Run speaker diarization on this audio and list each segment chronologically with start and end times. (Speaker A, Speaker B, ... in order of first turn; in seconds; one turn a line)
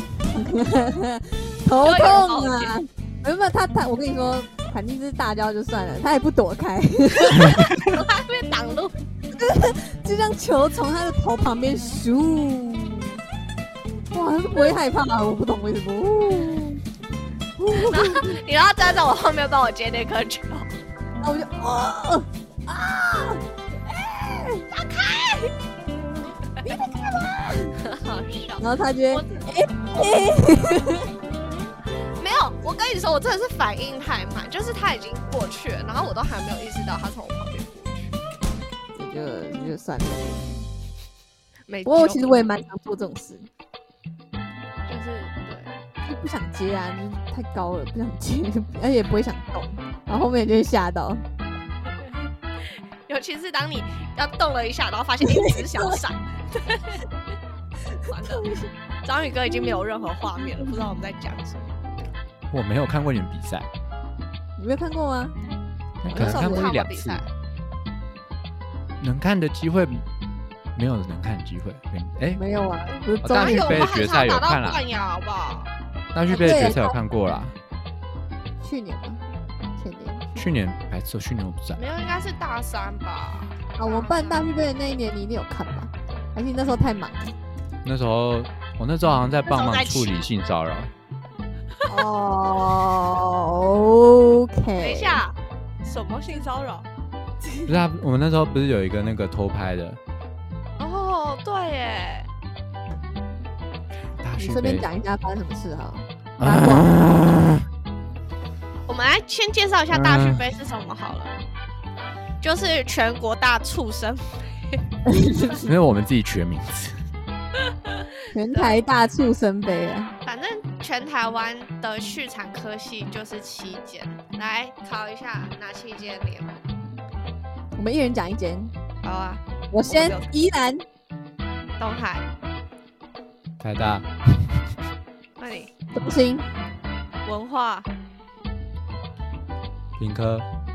Speaker A: 0.3-7.8
Speaker B: 1.8-2.7
Speaker C: 7.4-7.7
Speaker B: 7.8-8.9
Speaker A: 9.3-13.2
Speaker A: 14.1-16.8
Speaker A: 17.6-18.4
Speaker B: 17.9-20.8
Speaker A: 21.2-24.7
Speaker B: 24.7-25.5
Speaker A: 26.6-27.8
Speaker B: 27.8-29.5
Speaker A: 28.6-31.1
Speaker B: 32.2-38.2
Speaker A: 39.0-40.6
Speaker B: 41.7-42.4
Speaker A: 41.9-43.5
Speaker B: 44.9-45.8
Speaker A: 46.0-51.2
Speaker B: 53.1-57.0
Speaker A: 55.2-56.0
Speaker A: 58.0-58.7
Speaker B: 58.0-61.8
Speaker A: 59.5-60.9
Speaker C: 62.5-63.7
Speaker A: 64.6-65.4
Speaker C: 66.0-67.3
Speaker A: 66.1-66.7
Speaker B: 66.2-67.3
Speaker C: 69.0-70.0
Speaker C: 70.8-72.4
Speaker A: 72.4-73.9
Speaker C: 73.2-74.8
Speaker B: 73.3-75.7
Speaker C: 76.1-77.6
Speaker A: 76.3-77.0
Speaker A: 78.6-79.2
Speaker A: 79.8-80.5
Speaker C: 80.4-81.8
Speaker B: 81.8-84.5
Speaker A: 83.8-87.3
Speaker C: 87.8-90.9
Speaker B: 89.5-90.3
Speaker A: 91.9-95.2
Speaker B: 94.8-96.9
Speaker C: 97.7-100.0
Speaker B: 100.8-102.3
Speaker C: 104.2-104.9
Speaker A: 104.4-106.9
Speaker C: 106.4-107.6
Speaker B: 108.9-111.4
Speaker C: 109.9-110.4
Speaker B: 112.4-114.8
Speaker A: 115.0-115.7
Speaker C: 115.6-117.1
Speaker B: 117.6-118.8
Speaker A: 118.3-120.1
Speaker B: 120.3-126.6
Speaker A: 127.8-128.8
Speaker B: 129.0-130.3
Speaker A: 129.7-130.8
Speaker B: 131.8-132.3
Speaker C: 133.6-134.7
Speaker B: 135.4-135.7
Speaker A: 135.9-136.5
Speaker B: 137.2-137.9
Speaker C: 140.0-140.5